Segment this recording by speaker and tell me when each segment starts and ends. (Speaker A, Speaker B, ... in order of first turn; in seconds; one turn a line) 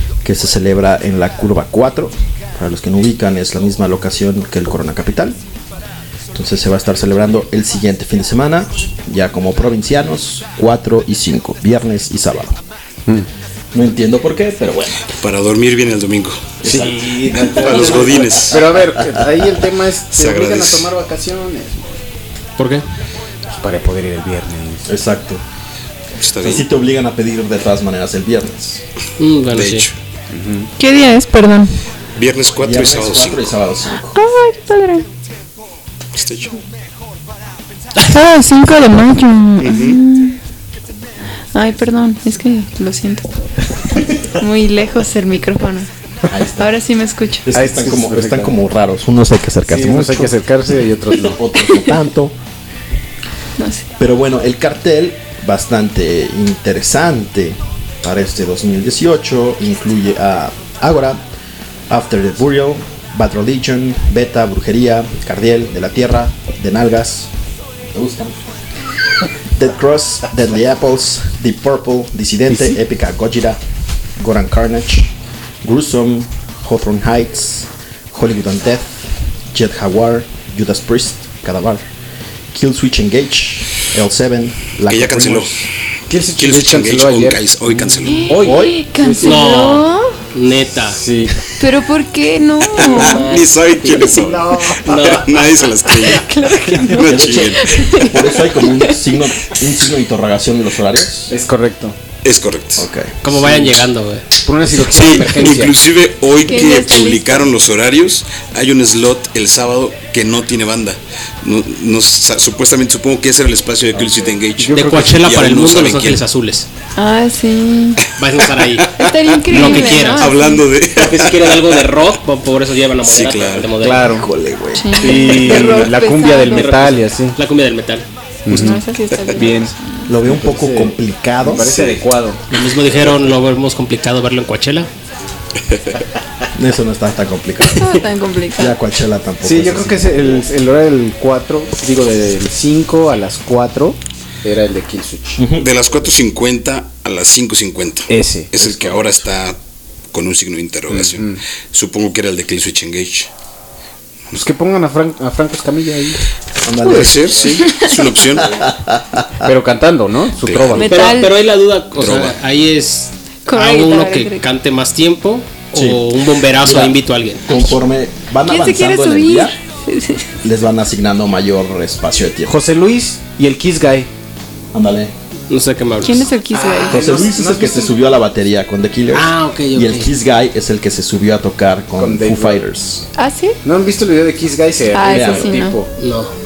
Speaker A: 0.2-5.4
Speaker A: 6.3-12.6
Speaker A: 13.7-15.1
Speaker B: 15.1-18.7
Speaker A: 16.6-18.1
Speaker C: 16.6-22.0
Speaker B: 20.1-20.9
Speaker D: 22.6-22.8
Speaker C: 23.5-24.9
Speaker A: 24.9-25.4
Speaker B: 26.2-26.6
Speaker A: 26.4-28.8
Speaker D: 29.2-29.9
Speaker B: 29.5-29.9
Speaker C: 30.3-30.7
Speaker E: 30.8-31.8
Speaker B: 32.1-33.5
Speaker A: 32.6-34.2
Speaker E: 34.1-35.0
Speaker B: 36.1-36.6
Speaker E: 38.0-40.4
Speaker B: 39.6-40.0
Speaker E: 41.5-43.2
Speaker E: 44.3-45.9
Speaker A: 46.3-46.8
Speaker E: 46.6-47.5
Speaker A: 47.4-50.3
Speaker C: 47.5-48.5
Speaker C: 49.6-51.4
Speaker A: 51.1-52.4
Speaker E: 53.6-53.9
Speaker A: 54.0-61.2
Speaker A: 61.9-67.3
Speaker A: 67.9-68.4
Speaker A: 69.5-73.6
Speaker A: 74.2-75.1
Speaker A: 75.6-81.8
Speaker A: 82.5-85.7
Speaker B: 84.8-85.6
Speaker C: 86.1-89.5
Speaker B: 86.3-88.5
Speaker E: 88.0-90.2
Speaker A: 88.4-88.8
Speaker D: 89.2-91.0
Speaker C: 90.9-91.3
Speaker E: 91.6-93.2
Speaker D: 92.8-94.2
Speaker B: 92.8-97.7
Speaker C: 94.0-95.9
Speaker D: 94.8-95.4
Speaker E: 96.0-99.0
Speaker A: 96.7-101.3
Speaker C: 101.3-102.0
Speaker B: 102.2-102.9
Speaker A: 102.8-103.7
Speaker D: 103.2-104.2
Speaker C: 104.4-105.7
Speaker B: 104.7-116.2
Speaker E: 106.5-107.5
Speaker C: 114.6-115.0
Speaker D: 114.7-116.7
Speaker E: 117.0-118.0
Speaker D: 118.2-120.4
Speaker B: 118.6-121.8
Speaker E: 119.0-120.7
Speaker D: 120.9-124.2
Speaker B: 123.1-123.7
Speaker C: 123.8-124.3
Speaker A: 124.1-125.6
Speaker E: 124.8-126.7
Speaker C: 125.0-127.4
Speaker D: 125.5-125.8
Speaker D: 126.4-128.1
Speaker C: 128.4-128.8
Speaker E: 128.5-130.1
Speaker C: 129.3-129.7
Speaker A: 130.1-131.7
Speaker C: 130.2-132.4
Speaker D: 132.5-134.9
Speaker A: 136.5-138.0
Speaker E: 137.7-138.8
Speaker A: 138.6-140.4
Speaker C: 139.4-145.4
Speaker A: 145.4-145.6
Speaker B: 145.5-149.6
Speaker C: 148.1-149.1
Speaker B: 150.1-153.3
Speaker C: 150.9-151.4
Speaker C: 154.3-156.2
Speaker A: 156.6-157.5
Speaker B: 156.8-158.7
Speaker A: 158.4-159.2
Speaker C: 159.4-160.9
Speaker B: 160.4-160.9
Speaker E: 160.8-161.4
Speaker D: 160.9-167.7
Speaker B: 162.0-162.4
Speaker E: 163.5-164.4
Speaker A: 165.7-166.0
Speaker A: 166.6-169.5
Speaker E: 168.4-170.3
Speaker A: 170.4-172.5
Speaker C: 172.5-174.1
Speaker A: 174.7-175.1
Speaker D: 175.5-176.3
Speaker E: 176.0-177.2
Speaker C: 176.5-178.0
Speaker A: 176.9-183.1
Speaker D: 179.1-180.1
Speaker C: 182.0-182.6
Speaker E: 183.2-183.6
Speaker C: 183.6-185.9
Speaker E: 184.9-185.7
Speaker A: 185.0-185.7
Speaker D: 186.0-186.3